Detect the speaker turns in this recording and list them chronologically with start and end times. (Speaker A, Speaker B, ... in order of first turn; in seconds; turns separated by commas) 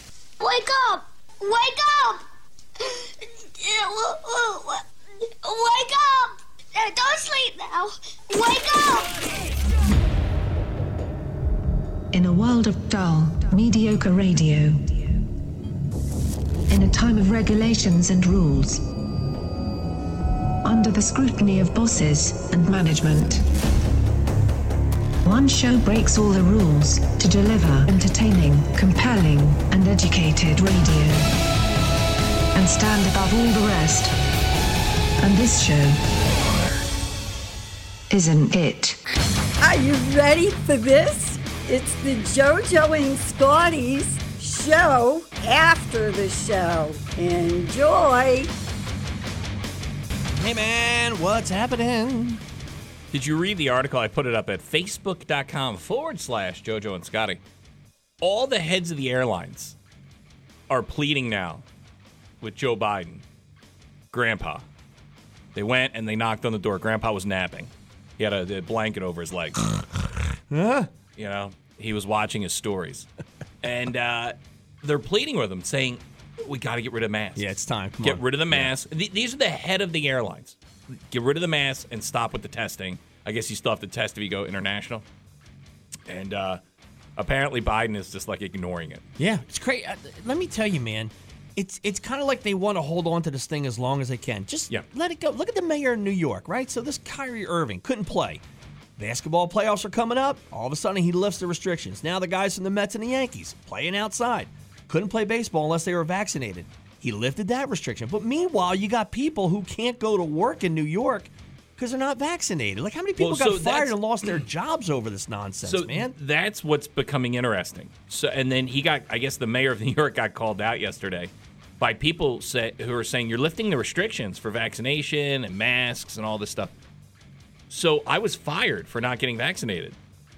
Speaker A: 0.4-2.2, Speaker A: 2.8-4.8, Speaker A: 5.4-9.3, Speaker B: 12.1-15.2, Speaker B: 16.7-18.8, Speaker B: 20.6-23.4, Speaker B: 25.2-31.3, Speaker B: 32.5-34.1, Speaker B: 35.2-36.0, Speaker B: 38.1-39.0, Speaker C: 39.6-48.5, Speaker D: 50.4-52.4, Speaker E: 53.1-57.4, Speaker E: 58.2-59.7, Speaker E: 60.7-61.6, Speaker E: 62.4-63.2, Speaker E: 64.1-64.6, Speaker E: 65.5-69.6, Speaker D: 70.5-70.9, Speaker E: 71.2-73.1, Speaker E: 73.6-77.5, Speaker D: 77.3-78.7, Speaker E: 78.0-80.6, Speaker E: 81.1-85.0, Speaker E: 86.1-86.6, Speaker E: 87.2-89.0, Speaker D: 89.2-98.4, Speaker D: 99.0-116.1, Speaker E: 113.2-114.4, Speaker E: 115.6-126.7, Speaker E: 127.7-130.0